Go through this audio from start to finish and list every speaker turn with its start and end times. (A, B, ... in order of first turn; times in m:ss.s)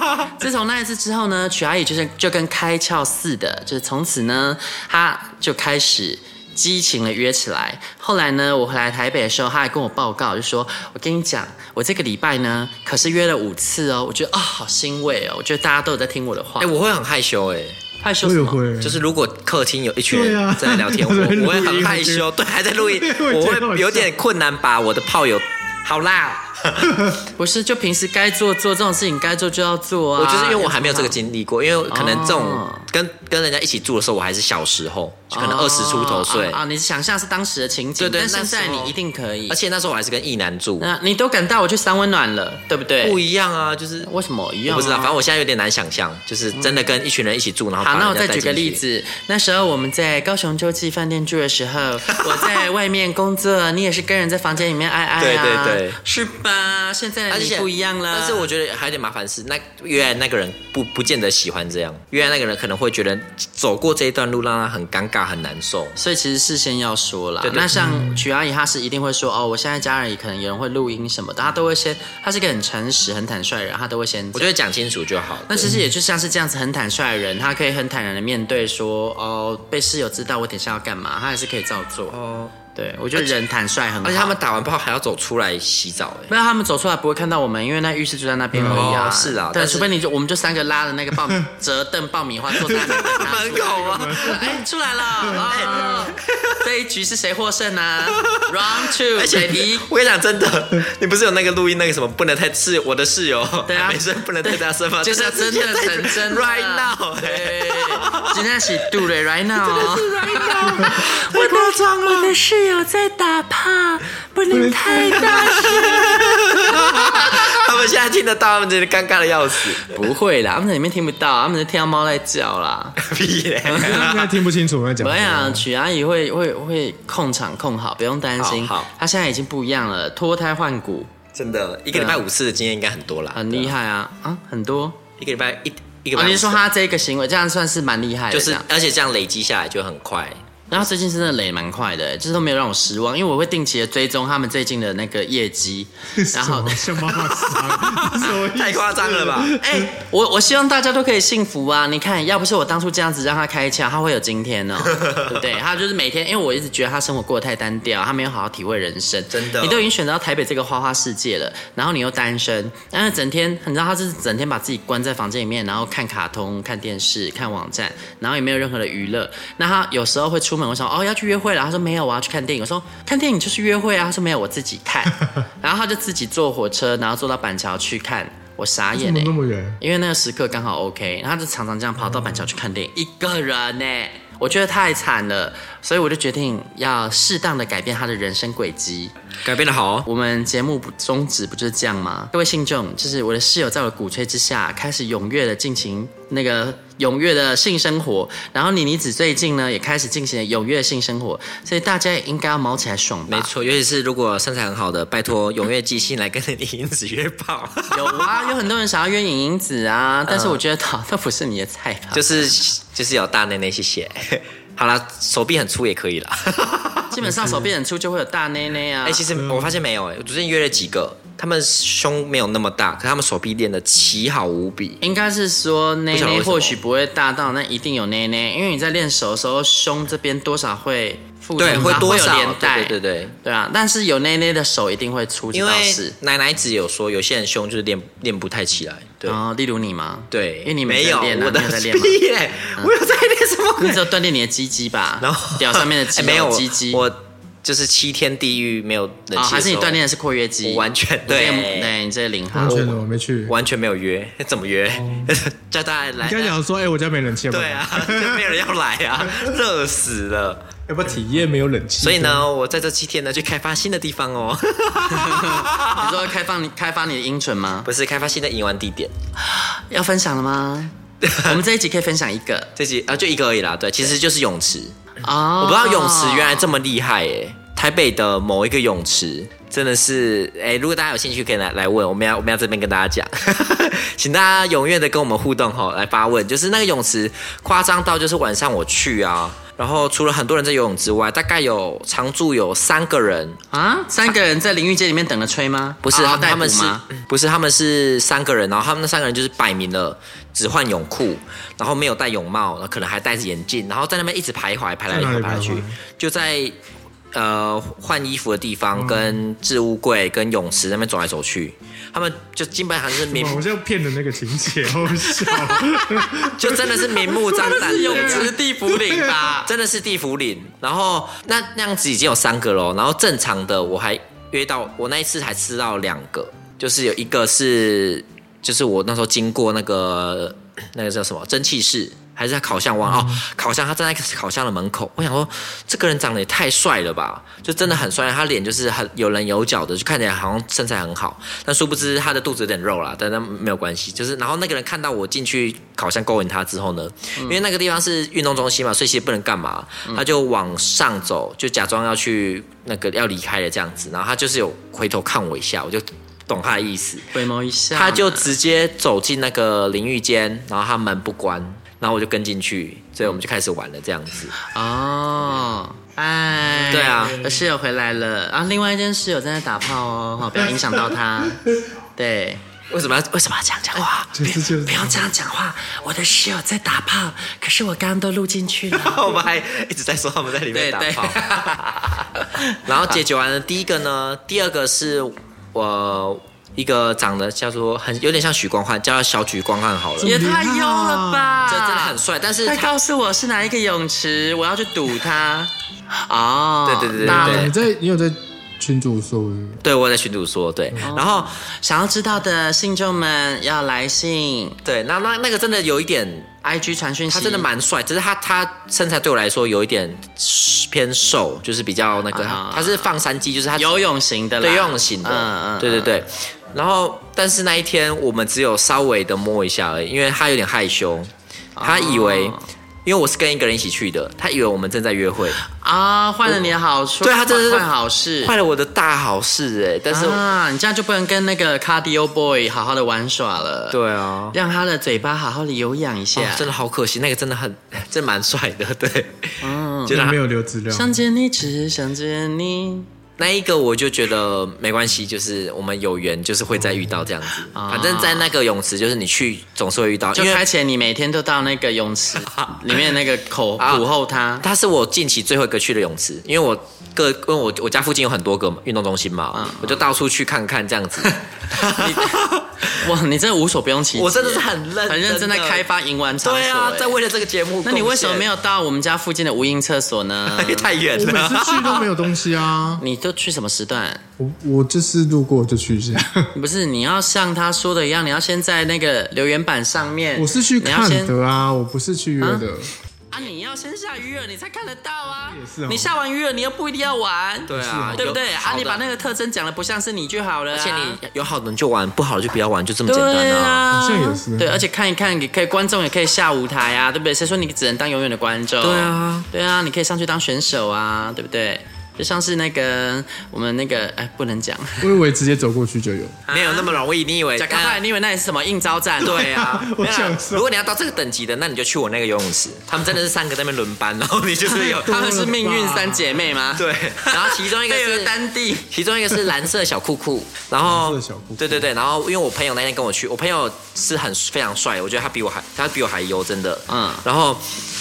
0:00.2-0:16.7 A
0:16.6-0:17.8 B
0:18.0-0:18.6 A
0:18.2-0:19.0 C
0:18.8-0:27.0 B
0:20.1-0:24.1 C
0:27.4-0:31.1 A
0:30.2-0:36.6 B
0:31.9-0:32.9 A
0:35.3-0:39.6 A
0:38.0-0:38.9 B
0:39.5-0:40.9 B
0:40.8-0:43.2 A
0:43.0-0:44.1 B
0:44.0-0:45.1 A
0:44.7-0:48.8 B
0:47.8-0:58.5 A
0:52.2-0:52.6 B
0:55.2-0:56.0 B
0:57.3-1:05.9 B
1:05.9-1:14.5 A
1:07.4-1:07.8 B
1:07.7-1:08.2 C
1:14.3-1:15.8 B
1:15.5-1:22.2 A
1:22.1-1:22.6 B
1:22.7-1:24.4 A
1:24.0-1:26.3 B
1:26.3-1:39.9 A
1:28.5-1:28.9 C
1:28.6-1:29.9 B
1:32.6-1:34.5 B
1:33.8-1:34.6 C
1:35.2-1:35.8 C
1:35.4-1:36.6 B
1:39.1-1:48.4 B
1:43.7-1:57.6 A
1:49.6-1:52.3 B
1:54.5-1:55.4 C
1:55.1-1:59.9 B
1:59.8-2:03.0 A
2:03.0-2:04.3 B
2:03.6-2:04.1 A
2:03.7-2:05.6 C
2:05.0-2:11.1 A
2:08.4-2:08.9 B
2:11.3-2:13.7 B
2:11.9-2:12.2 A
2:13.3-2:15.0 A
2:15.2-2:16.6 B
2:16.1-2:18.6 A
2:18.3-2:20.4 B
2:20.7-2:26.9 A
2:26.2-2:29.9 C
2:27.2-2:29.6 B
2:29.5-3:09.1 A
2:34.9-2:35.4 B
2:39.3-2:39.8 B
2:59.0-2:59.8 C
3:09.4-3:10.1 B
3:10.0-3:23.5 A
3:23.3-3:28.5 B
3:27.9-3:32.6 A
3:30.3-3:30.6 B
3:32.1-3:37.1 B
3:37.1-3:39.3 A
3:37.2-3:37.6 C
3:39.0-3:45.0 B
3:39.4-3:39.7 C
3:45.0-3:56.1 A
3:46.1-3:46.8 B
3:51.6-3:53.4 B
3:55.5-3:59.4 B
3:59.2-4:02.2 A
4:00.3-4:04.0 B
4:03.8-4:07.0 A
4:05.2-4:10.0 B
4:09.3-4:12.9 A
4:10.6-4:11.9 B
4:12.5-4:13.5 C
4:12.6-4:16.5 B
4:14.9-4:15.3 C
4:16.2-4:18.5 C
4:17.5-4:20.6 B
4:19.2-4:19.5 C
4:20.9-4:22.5 C
4:22.0-4:26.2 B
4:25.1-4:27.9 A
4:27.8-4:29.1 B
4:29.4-4:32.7 A
4:31.2-4:31.6 B
4:32.8-4:34.9 B
4:35.2-4:36.7 A
4:35.6-4:53.6 B
4:53.7-4:57.0 A
4:56.0-5:06.7 B
5:05.1-5:06.0 C
5:07.3-5:13.6 B
5:08.9-5:09.4 C
5:13.3-5:19.5 C
5:15.5-5:15.8 A
5:16.5-5:18.5 B
5:17.5-5:19.7 A
5:19.6-5:57.3 B
5:33.0-5:33.4 C
5:57.3-5:58.5 A
5:57.9-6:04.5 B
6:04.6-6:11.6 A
6:06.6-6:07.6 C
6:06.9-6:07.4 B
6:12.2-6:12.6 A
6:12.9-6:14.5 B
6:14.3-6:15.3 C
6:14.4-6:19.4 A
6:18.9-6:21.8 B
6:20.7-6:23.2 A
6:22.8-6:30.4 B
6:30.2-6:31.7 C
6:30.2-6:37.7 A
6:31.7-6:32.9 B
6:36.8-6:37.7 B
6:37.2-6:39.8 C
6:39.8-6:41.6 B
6:41.0-6:44.8 A
6:44.8-6:46.5 B
6:46.6-6:47.7 A
6:47.3-6:54.0 B
6:52.3-6:53.1 A
6:53.8-6:56.1 A
6:54.6-7:01.3 B
7:01.8-7:02.6 A
7:01.8-7:05.6 B
7:05.6-7:08.5 A
7:07.2-7:07.9 B
7:08.4-7:10.4 B
7:10.1-7:14.0 A
7:13.9-7:14.6 B
7:14.5-7:16.7 A
7:16.3-7:20.4 B
7:19.6-7:20.2 A
7:20.1-7:21.2 C
7:20.9-7:23.1 A
7:23.4-7:30.6 B
7:27.7-7:28.5 A
7:30.3-7:34.6 A
7:32.5-7:33.1 B
7:33.8-7:34.0 B
7:34.6-7:43.0 B
7:39.5-7:40.0 A
7:41.8-7:47.1 A
7:44.1-7:45.8 B
7:46.4-7:48.4 B
7:47.8-7:50.9 A
7:50.5-7:52.2 B
7:51.1-7:53.0 C
7:53.0-7:54.2 A
7:54.4-7:56.5 C
7:56.5-8:01.3 A
8:00.4-8:02.9 C
8:03.3-8:11.2 A
8:05.5-8:06.1 C
8:07.7-8:09.0 B
8:07.7-8:08.3 C
8:10.7-8:13.9 B
8:13.1-8:25.1 A
8:13.9-8:14.8 C
8:18.8-8:19.5 B
8:25.0-8:26.4 C
8:26.5-8:26.9 A
8:26.5-8:28.0 B
8:27.6-8:29.5 A
8:29.2-8:35.3 B
8:29.4-8:30.6 C
8:34.7-8:38.9 A
8:35.0-8:36.4 C
8:36.8-8:38.3 B
8:38.9-8:47.8 B
8:40.8-8:41.9 C
8:46.9-8:47.2 A